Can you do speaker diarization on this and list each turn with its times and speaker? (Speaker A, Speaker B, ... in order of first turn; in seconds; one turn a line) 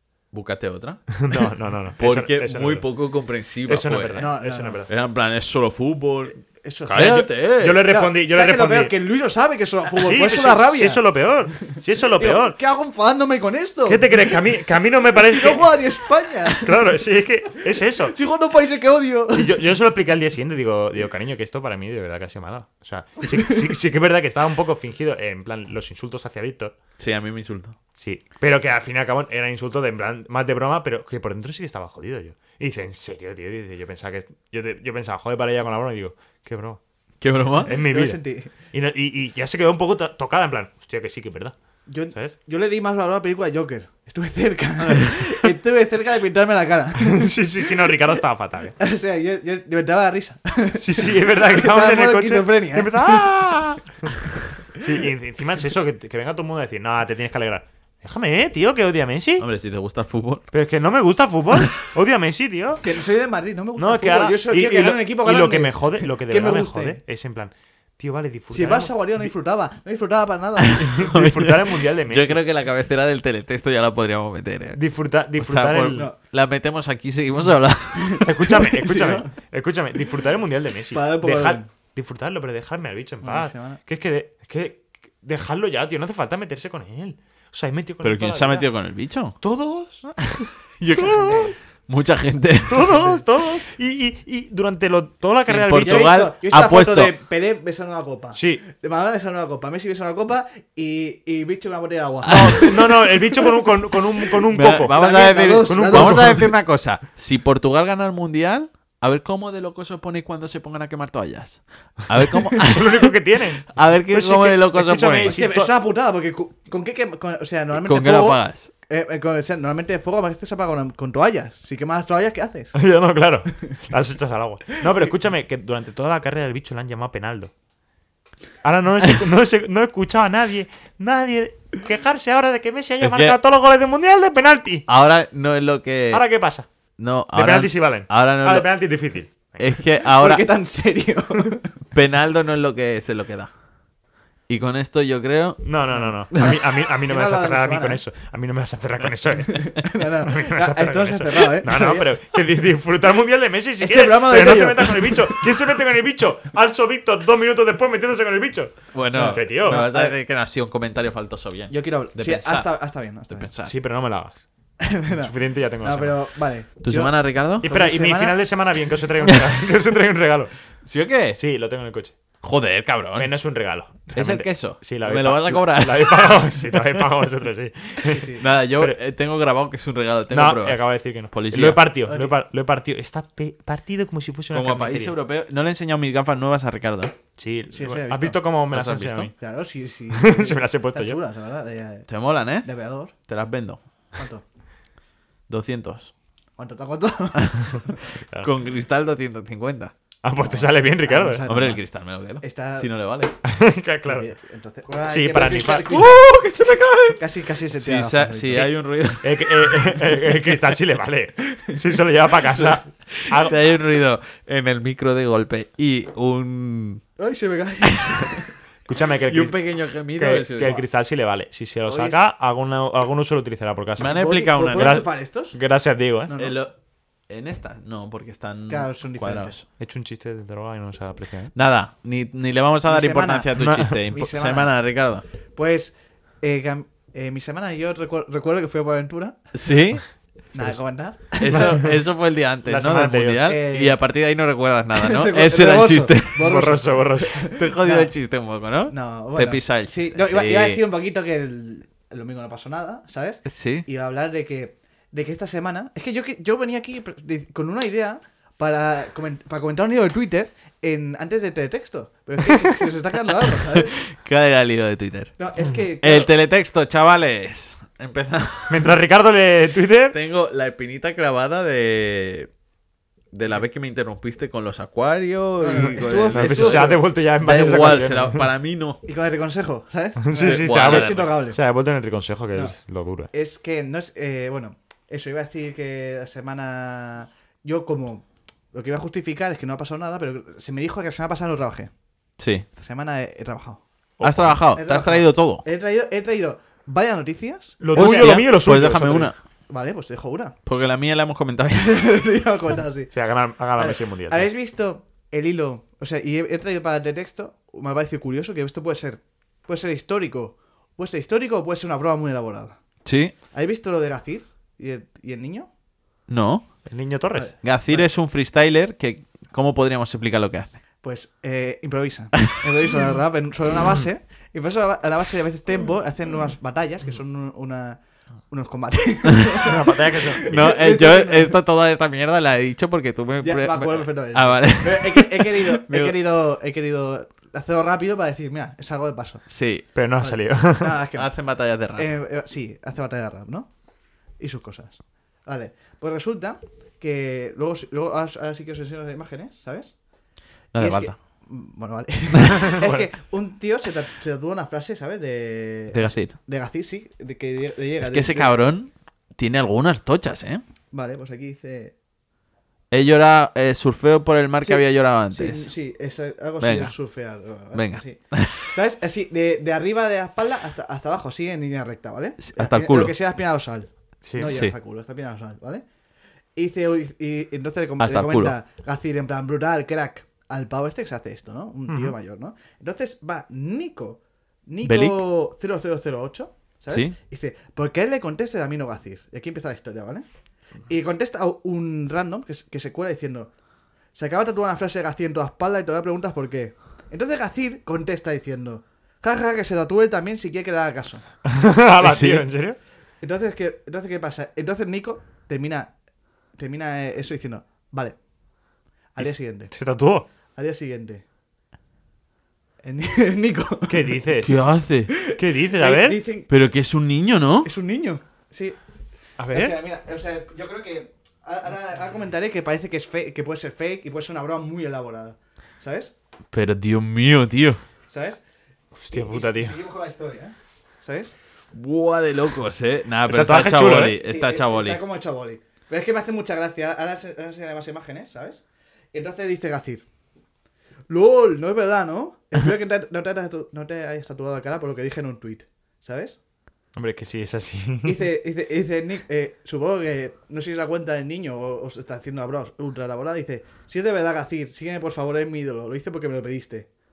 Speaker A: 0.3-1.2
Speaker B: 1.2-2.9
Speaker A: 2.0-6.4
Speaker B: 3.7-4.9
Speaker C: 4.2-4.8
Speaker C: 6.6-7.3
Speaker B: 6.9-8.9
Speaker A: 6.9-7.9
Speaker C: 7.8-11.0
Speaker B: 9.9-12.6
Speaker C: 11.6-14.4
Speaker B: 13.9-15.8
Speaker C: 15.2-16.8
Speaker B: 16.5-18.1
Speaker C: 18.1-19.6
Speaker B: 19.3-26.7
Speaker A: 27.0-27.8
Speaker B: 28.0-36.8
Speaker A: 37.2-37.8
Speaker C: 37.6-38.5
Speaker B: 37.6-41.5
Speaker C: 41.9-47.3
Speaker B: 47.0-48.7
Speaker C: 48.8-53.2
Speaker B: 50.8-59.5
Speaker A: 59.4-60.5
Speaker B: 60.5-62.8
Speaker C: 62.8-67.0
Speaker B: 63.8-69.3
Speaker C: 68.5-71.0
Speaker A: 70.6-74.8
Speaker B: 70.8-72.4
Speaker B: 74.7-76.1
Speaker A: 75.4-78.5
Speaker C: 78.0-79.3
Speaker B: 78.2-88.7
Speaker C: 80.9-81.7
Speaker C: 83.2-83.8
Speaker A: 88.0-89.4
Speaker B: 89.4-90.5
Speaker A: 90.8-93.0
Speaker C: 90.9-91.6
Speaker B: 92.7-96.1
Speaker C: 92.9-93.2
Speaker A: 95.4-97.1
Speaker C: 95.8-102.7
Speaker B: 98.4-98.6
Speaker A: 102.2-113.1
Speaker B: 102.3-106.5
Speaker C: 104.9-106.5
Speaker B: 112.3-115.7
Speaker A: 113.6-115.4
Speaker C: 115.2-122.7
Speaker A: 117.7-118.7
Speaker B: 122.7-127.5
Speaker B: 128.6-134.9
Speaker A: 133.0-133.4
Speaker A: 134.9-136.2
Speaker B: 136.1-136.7
Speaker A: 137.0-138.7
Speaker B: 137.3-139.7
Speaker A: 139.6-140.5
Speaker C: 140.1-141.7
Speaker A: 141.9-143.5
Speaker A: 144.5-145.6
Speaker B: 145.6-159.8
Speaker C: 145.9-146.5
Speaker C: 147.1-148.0
Speaker C: 149.6-152.1
Speaker C: 153.8-155.4
Speaker A: 158.9-162.7
Speaker C: 159.1-160.2
Speaker C: 161.7-163.5
Speaker A: 163.3-163.7
Speaker B: 163.6-164.4
Speaker C: 164.8-168.4
Speaker B: 165.1-166.2
Speaker A: 166.8-167.7
Speaker B: 167.6-170.5
Speaker A: 169.2-169.6
Speaker A: 170.8-171.4
Speaker B: 171.4-172.2
Speaker A: 172.4-173.3
Speaker B: 173.2-178.9
Speaker A: 174.1-177.0
Speaker C: 178.0-178.4
Speaker A: 178.4-181.8
Speaker B: 180.3-185.1
Speaker C: 182.1-182.3
Speaker A: 184.5-187.1
Speaker B: 187.4-189.3
Speaker C: 187.7-188.4
Speaker A: 188.7-189.3
Speaker C: 189.4-192.1
Speaker B: 190.1-191.2
Speaker A: 192.1-192.7
Speaker C: 192.6-193.1
Speaker A: 193.2-193.8
Speaker C: 194.1-194.4
Speaker A: 195.5-196.1
Speaker C: 196.6-198.0
Speaker A: 197.4-197.7
Speaker A: 198.4-199.9
Speaker B: 200.2-201.5
Speaker C: 200.4-201.8
Speaker A: 201.4-203.3
Speaker C: 202.4-202.9
Speaker B: 203.4-204.3
Speaker C: 204.0-206.2
Speaker B: 205.1-206.0
Speaker A: 205.9-210.1
Speaker C: 207.2-208.7
Speaker B: 208.5-213.6
Speaker A: 212.5-217.0
Speaker C: 217.2-218.5
Speaker A: 218.0-218.3
Speaker B: 218.9-224.2
Speaker A: 219.3-220.8
Speaker C: 221.9-222.2
Speaker A: 224.0-225.0
Speaker C: 224.0-225.6
Speaker B: 224.8-226.3
Speaker C: 226.3-226.6
Speaker A: 226.4-226.7
Speaker A: 227.3-229.6
Speaker C: 228.7-229.6
Speaker B: 229.8-231.5
Speaker A: 231.5-235.2
Speaker C: 232.8-234.7
Speaker B: 233.5-234.0
Speaker C: 235.5-239.4
Speaker A: 239.5-240.1
Speaker C: 240.5-241.9
Speaker A: 241.4-246.6
Speaker B: 241.5-241.9
Speaker B: 242.6-243.5
Speaker C: 243.4-244.0
Speaker C: 244.9-248.1
Speaker B: 246.4-247.5
Speaker A: 247.5-250.8
Speaker C: 248.9-264.0
Speaker A: 253.4-253.9
Speaker A: 262.5-265.3
Speaker C: 265.4-266.3
Speaker A: 266.0-269.0
Speaker B: 268.7-270.1
Speaker A: 270.1-272.5
Speaker A: 273.3-279.0
Speaker C: 275.6-278.2
Speaker B: 276.3-278.4
Speaker C: 279.0-281.6
Speaker B: 280.2-283.3
Speaker A: 280.3-281.4
Speaker C: 283.3-291.9
Speaker A: 292.4-292.6
Speaker C: 292.7-293.8
Speaker B: 294.2-294.6
Speaker A: 294.2-295.6
Speaker C: 294.7-300.5
Speaker B: 297.8-299.3
Speaker A: 297.9-299.4
Speaker A: 300.6-302.2
Speaker C: 301.9-303.1
Speaker B: 303.1-304.5
Speaker C: 303.8-312.8
Speaker A: 313.0-313.3
Speaker C: 313.5-315.7
Speaker A: 316.3-316.7
Speaker B: 316.9-317.5
Speaker C: 317.4-318.1
Speaker A: 317.6-320.8
Speaker C: 321.0-331.6
Speaker B: 329.6-330.7
Speaker A: 330.5-336.2
Speaker C: 333.4-339.5
Speaker A: 339.5-339.9
Speaker B: 339.9-341.0
Speaker C: 340.2-341.3
Speaker A: 341.1-342.1
Speaker C: 341.9-343.7
Speaker C: 344.4-350.0
Speaker A: 350.7-351.1
Speaker C: 350.8-358.5
Speaker B: 352.6-353.0
Speaker A: 355.9-356.4
Speaker A: 358.0-360.6
Speaker C: 360.9-361.9
Speaker A: 362.9-365.7
Speaker C: 364.6-375.8
Speaker A: 366.6-366.9
Speaker A: 367.7-368.8
Speaker A: 372.4-373.1
Speaker B: 374.2-374.6
Speaker A: 374.4-374.7
Speaker C: 376.6-390.2
Speaker A: 378.0-378.5
Speaker B: 381.9-382.1
Speaker A: 384.9-385.2
Speaker A: 386.9-387.1
Speaker C: 390.9-393.5
Speaker C: 394.1-401.2
Speaker B: 401.5-402.8
Speaker A: 402.0-402.4
Speaker C: 403.2-405.9
Speaker C: 406.6-408.2
Speaker C: 409.1-409.7
Speaker B: 409.2-410.2
Speaker C: 410.6-411.2
Speaker C: 412.8-414.1
Speaker B: 413.9-414.6
Speaker A: 414.4-415.1
Speaker C: 415.1-416.5
Speaker B: 415.2-416.2
Speaker A: 416.5-417.7
Speaker C: 417.6-418.8
Speaker B: 419.4-419.8
Speaker C: 419.5-426.1
Speaker A: 426.5-427.8
Speaker C: 428.1-428.4
Speaker B: 428.9-429.8
Speaker C: 429.1-431.4
Speaker A: 431.7-435.0
Speaker B: 433.3-434.1
Speaker C: 434.2-440.0
Speaker C: 441.1-446.4
Speaker B: 446.9-448.2
Speaker C: 448.0-456.9